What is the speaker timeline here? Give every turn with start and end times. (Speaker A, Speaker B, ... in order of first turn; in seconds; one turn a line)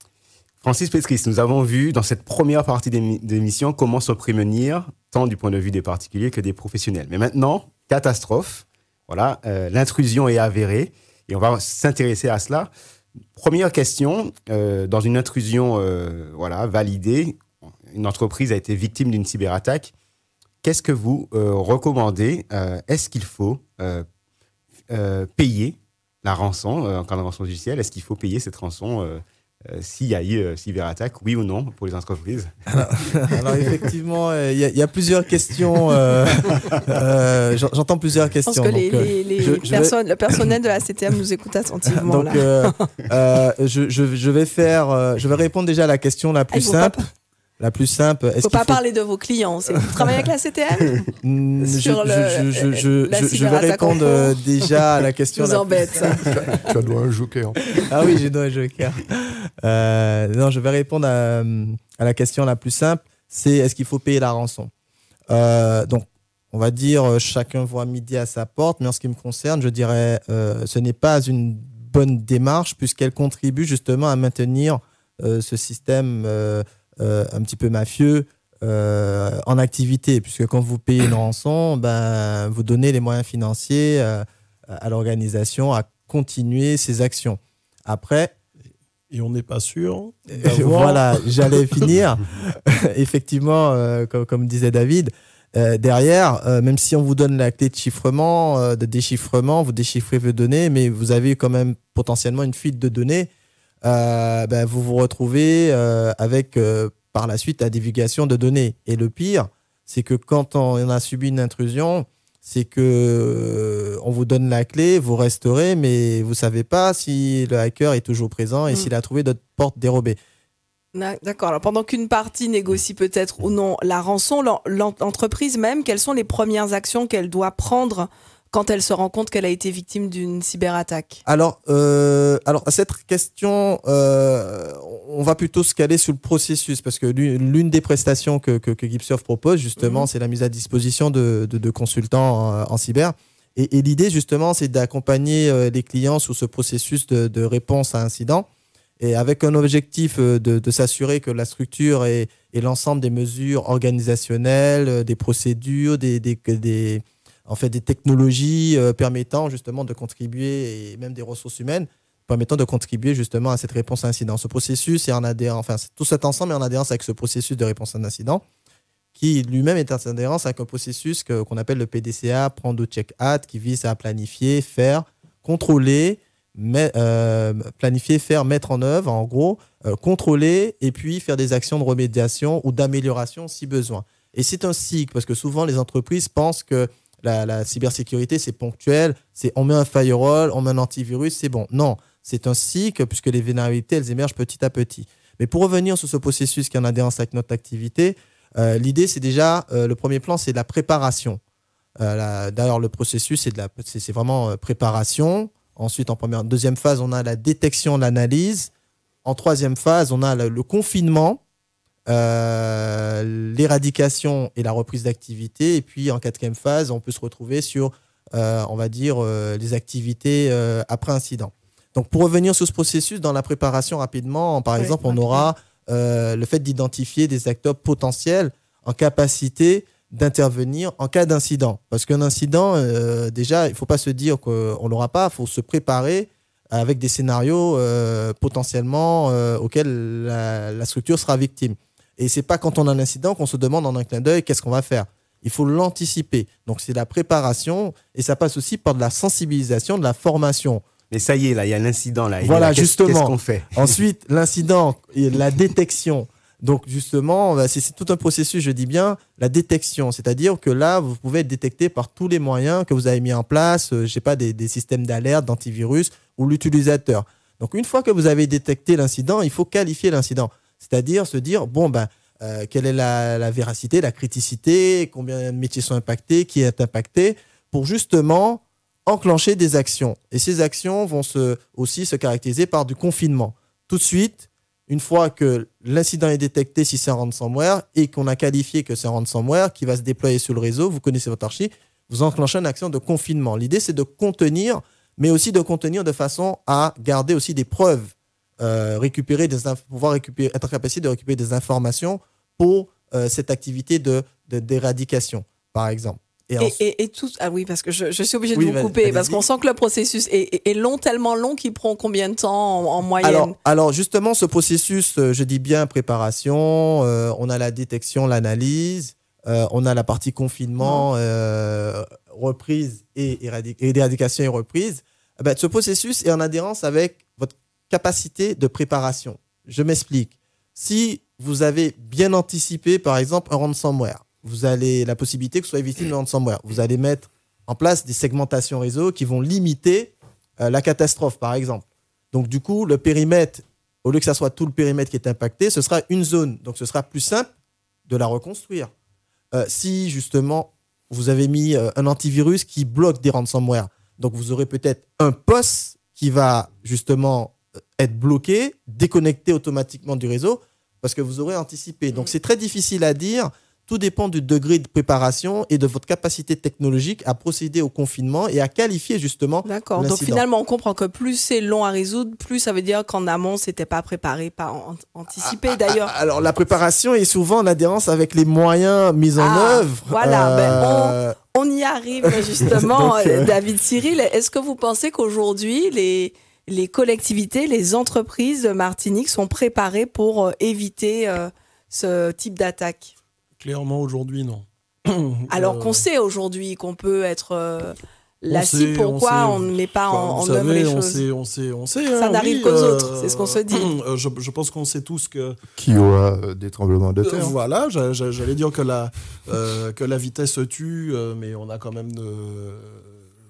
Speaker A: 0.6-12.7
Speaker A: 13.3-19.9
Speaker A: 20.6-24.1
Speaker A: 24.9-32.5
Speaker B: 32.7-39.9
Speaker C: 38.5-42.8
Speaker B: 41.9-47.0
Speaker C: 46.5-47.1
Speaker B: 47.6-48.8
Speaker C: 48.4-51.0
Speaker B: 51.1-56.2
Speaker C: 51.6-54.4
Speaker C: 55.3-56.5
Speaker D: 56.2-57.6
Speaker B: 57.7-64.7
Speaker B: 65.3-88.3
Speaker E: 89.1-91.7
Speaker B: 90.3-103.3
Speaker B: 103.8-120.2
Speaker C: 120.9-131.2
Speaker B: 131.2-148.5
Speaker C: 139.8-140.1
Speaker B: 149.0-168.4
Speaker B: 169.1-201.4
Speaker B: 202.0-208.7
Speaker B: 209.2-211.4
Speaker B: 212.1-250.8
Speaker C: 224.8-225.5
Speaker A: 251.1-254.0
Speaker B: 252.4-306.8
Speaker C: 306.6-313.6
Speaker B: 308.5-309.4
Speaker B: 313.2-347.5
Speaker C: 320.8-321.1
Speaker B: 348.1-348.9
Speaker B: 349.5-370.4
Speaker C: 369.6-376.1
Speaker B: 375.4-381.4
Speaker C: 379.4-393.1
Speaker B: 382.6-383.5
Speaker E: 393.6-396.0
Speaker C: 395.5-401.2
Speaker E: 398.5-405.6
Speaker C: 402.1-403.9
Speaker D: 405.8-407.6
Speaker E: 407.2-413.3